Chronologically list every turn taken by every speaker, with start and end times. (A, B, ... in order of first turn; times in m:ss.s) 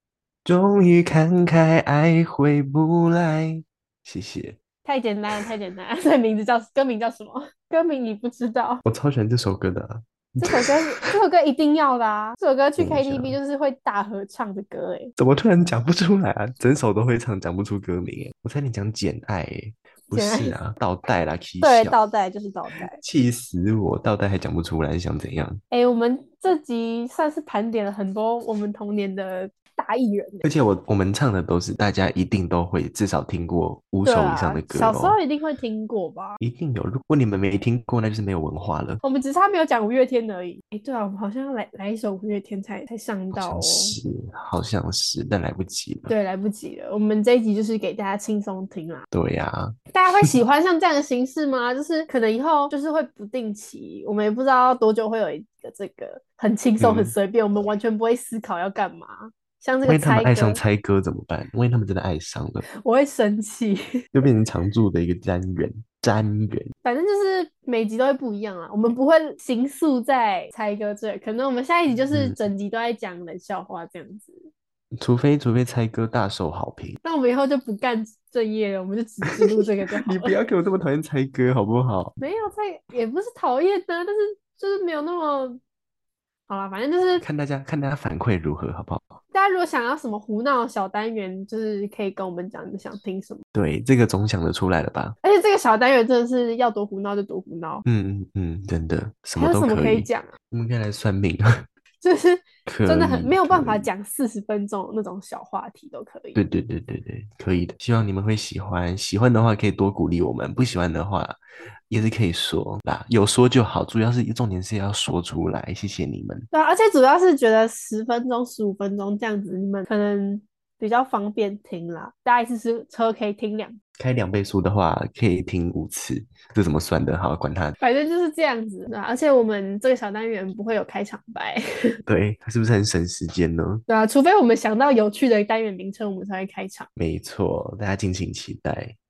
0:00.4-0:04.6 A
0:04.8-0:08.8 B
0:08.8-0:11.1 A
0:10.4-0:15.1 B
0:12.8-0:13.4 A
0:15.2-0:22.0 A
0:20.1-0:20.5 B
0:21.6-0:23.0 B
0:22.9-0:25.6 A
0:25.7-0:30.4 B
0:30.4-0:35.2 A
0:34.0-0:36.4 B
0:36.4-0:39.0 A
0:39.0-0:44.0 B
0:43.3-0:46.1 A
0:46.1-0:49.0 B
0:49.1-0:50.3 A
0:49.9-1:00.6 B
0:56.8-0:57.2 A
0:59.8-1:02.6 A
1:02.8-1:03.8 B
1:04.1-1:06.7 A
1:06.8-1:14.5 B
1:12.1-1:12.4 A
1:15.0-1:17.0 A
1:17.0-1:20.4 B
1:20.0-1:22.2 A
1:22.2-1:25.6 B
1:26.5-1:27.2 B
1:27.2-1:29.1 A
1:29.3-1:33.4 B
1:33.5-1:35.2 A
1:35.2-1:37.8 B
1:37.8-1:41.5 A
1:39.3-1:40.3 B
1:42.0-1:46.4 B
1:42.7-1:43.9 A
1:46.4-1:56.5 A
1:56.5-2:03.8 B
2:04.0-2:07.8 A
2:07.8-2:11.6 B
2:12.1-2:13.8 A
2:13.9-2:16.9 B
2:17.0-2:19.0 A